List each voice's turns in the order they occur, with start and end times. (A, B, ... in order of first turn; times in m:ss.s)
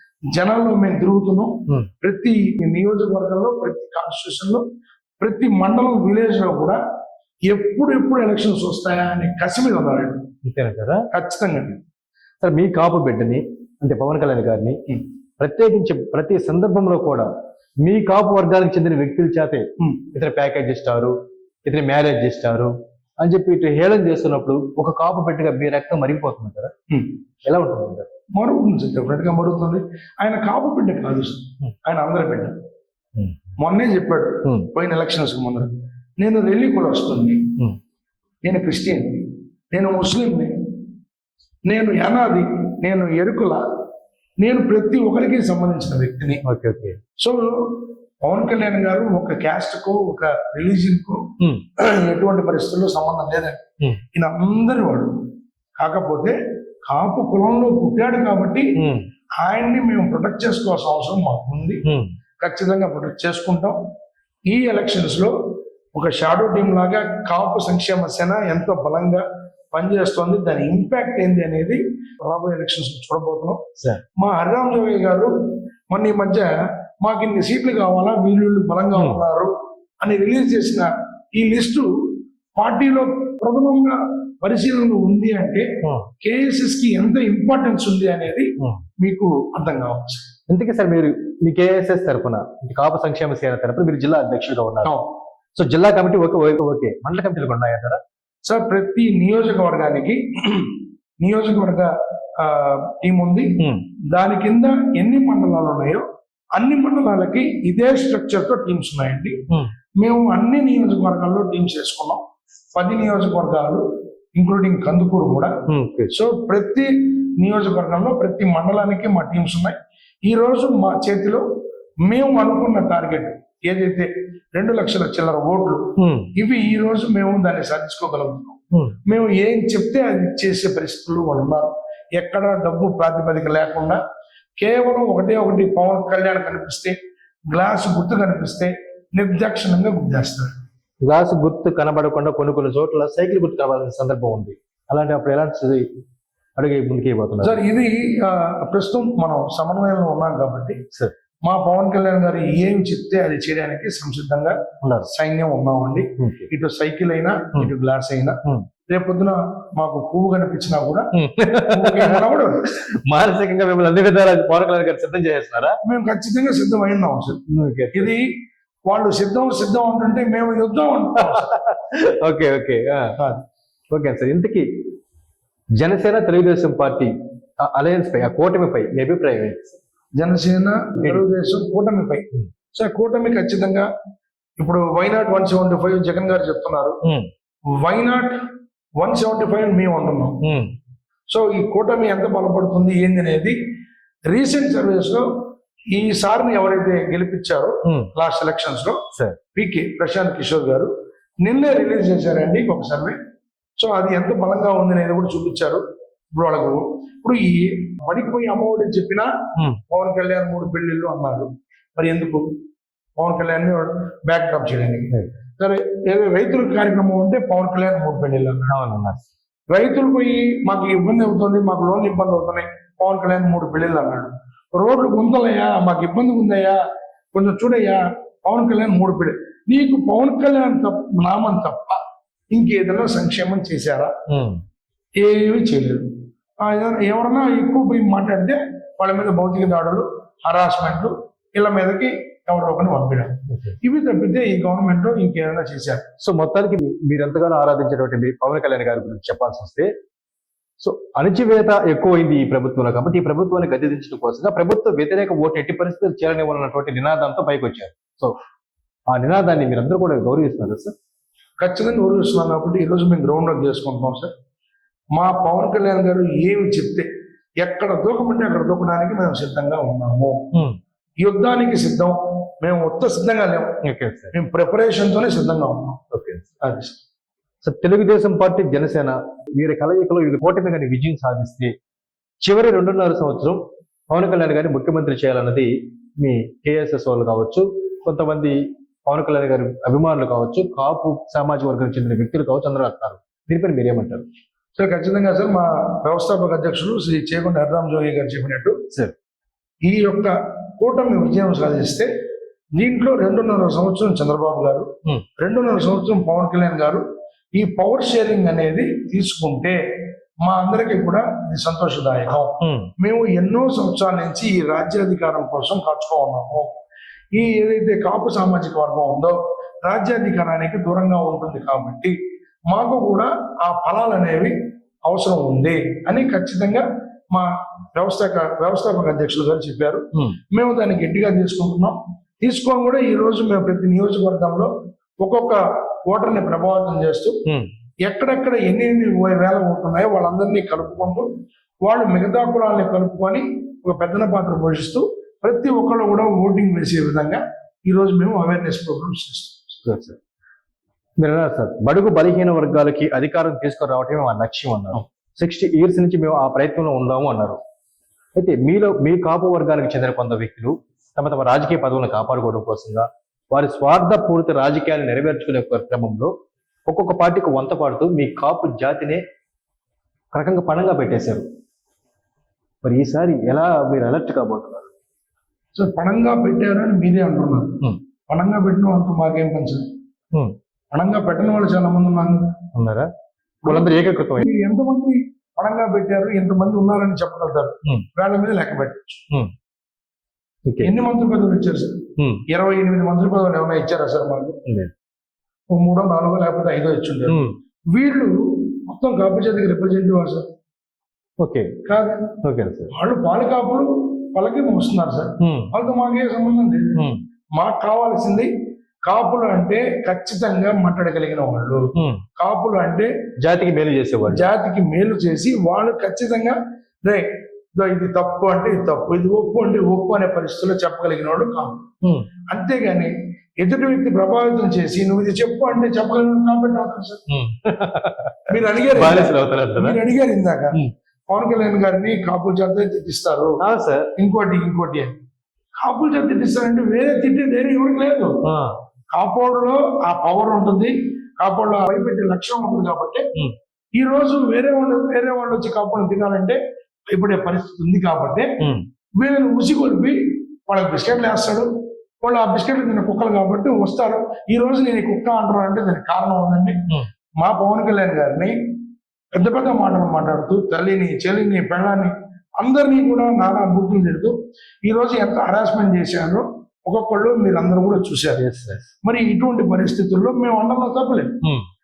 0:00.3-0:04.6 A
0:05.2-0:06.8 A
0:07.5-0:10.2 A
0:10.4-0:11.0 B
0:11.1-0:11.8 A
0:12.4-0:14.8 B
0:15.4-0:17.3 B
0:17.8-0:21.1 B
0:21.6-0:26.7 B
0:27.4-0:28.1 B
0:28.3-0:32.5 A
0:33.6-0:37.4 A
0:34.4-0:34.7 B
0:38.4-0:40.5 A
0:41.7-0:43.6 A
0:44.4-0:46.4 A
0:46.4-0:47.0 B
0:47.2-0:51.3 A
0:51.4-0:51.6 B
0:51.8-0:53.6 A
0:54.1-0:55.2 A
0:55.8-0:56.3 A
0:56.9-0:58.7 A
0:58.8-0:59.1 B
0:59.4-1:01.8 A
1:01.8-1:02.1 B
1:02.4-1:03.8 A
1:04.5-1:05.3 A
1:05.9-1:13.6 A
1:14.2-1:15.3 A
1:15.9-1:16.5 A
1:17.0-1:21.9 A
1:18.9-1:19.2 B
1:22.6-1:25.6 A
1:25.8-1:26.1 B
1:26.2-1:28.5 A
1:29.0-1:30.2 A
1:30.5-1:34.9 B
1:35.6-1:38.0 B
1:38.4-1:43.5 A
1:43.6-1:43.9 B
1:44.1-1:46.0 A
1:46.6-1:49.3 A
1:50.0-1:52.2 A
1:52.7-1:53.8 A
1:54.4-1:55.5 A
1:55.7-1:56.1 B
1:56.1-2:01.4 A
2:02.0-2:05.8 A
2:06.0-2:06.3 B
2:06.4-2:14.0 A
2:08.7-2:09.0 B
2:14.6-2:17.0 A
2:17.5-2:20.5 A
2:21.0-2:25.8 B
2:26.6-2:27.6 B
2:27.4-2:30.8 A
2:31.4-2:34.6 A
2:34.8-2:35.1 B
2:35.1-2:41.1 A
2:36.2-2:36.5 B
2:41.1-2:42.2 B
2:41.6-2:42.8 A
2:43.0-2:45.8 B
2:45.8-2:47.4 A
2:47.5-2:48.1 B
2:47.9-2:48.2 A
2:48.8-2:51.4 A
2:51.2-2:53.2 B
2:53.2-2:53.4 A
2:53.9-2:54.6 B
2:55.8-2:59.8 B
3:00.2-3:03.9 A
3:04.6-3:07.0 A
3:07.0-3:07.3 B
3:07.8-3:08.4 A
3:09.0-3:10.4 A
3:10.4-3:10.7 B
3:11.3-3:13.6 A
3:14.3-3:15.2 A
3:15.9-3:19.0 A
3:19.5-3:20.9 A
3:21.4-3:23.2 A
3:23.8-3:25.8 A
3:26.4-3:29.3 A
3:29.9-3:32.6 A
3:33.2-3:38.7 A
3:38.7-3:39.2 B
3:39.7-3:46.8 A
3:47.3-3:52.0 A
3:52.5-3:54.1 A
3:54.3-3:54.6 B
3:55.2-3:56.1 A
3:56.6-4:06.0 A
4:03.5-4:03.8 B
4:06.2-4:09.9 B
4:10.8-4:18.3 B
4:19.1-4:20.9 B
4:21.6-4:24.3 A
4:25.1-4:27.1 A
4:27.6-4:30.4 A
4:30.5-4:30.8 B
4:31.2-4:33.7 A
4:33.8-4:34.3 B
4:34.3-4:36.0 A
4:36.1-4:36.5 B
4:36.6-4:37.0 A
4:37.6-4:41.7 B
4:42.4-4:54.2 B
4:54.8-4:58.8 A
4:59.8-5:02.1 A
5:02.8-5:07.0 A
5:07.5-5:09.8 A
5:10.4-5:16.8 A
5:12.6-5:12.9 B
5:17.3-5:22.1 A
5:22.7-5:24.5 A
5:25.0-5:37.4 A
5:38.0-5:41.3 A
5:41.8-5:49.6 A
5:49.8-5:50.2 B
5:51.2-5:57.6 B
5:58.4-6:06.3 B
6:06.9-6:09.2 B
6:10.3-6:11.4 B
6:12.8-6:14.9 B
6:15.7-6:19.9 A
6:20.9-6:22.5 A
6:22.7-6:23.1 B
6:23.6-6:24.5 B
6:23.6-6:29.2 A
6:30.6-6:30.9 B
6:30.8-6:34.6 A
6:32.2-6:32.4 B
6:34.6-6:34.9 B
6:35.7-6:37.4 A
6:37.3-6:37.5 B
6:37.9-6:40.5 A
6:41.4-6:41.7 B
6:41.8-6:42.4 A
6:42.4-6:42.9 B
6:42.9-6:46.9 A
6:45.4-6:45.7 B
6:46.9-6:47.2 B
6:47.5-6:48.5 A
6:49.0-6:53.1 A
6:51.9-6:52.2 B
6:53.4-6:54.4 B
6:54.3-7:01.8 A
7:02.0-7:02.3 B
7:02.5-7:07.2 A
7:07.3-7:10.0 B
7:08.5-7:10.8 A
7:11.3-7:13.6 A
7:13.6-7:14.1 B
7:14.2-7:15.1 A
7:15.8-7:18.4 A
7:18.4-7:18.8 B
7:19.1-7:23.3 A
7:24.0-7:26.6 A
7:27.1-7:28.5 A
7:28.6-7:28.8 B
7:29.2-7:31.7 A
7:32.2-7:36.8 A
7:37.4-7:38.5 A
7:39.3-7:48.4 A
7:48.4-7:48.9 B
7:49.0-7:51.3 A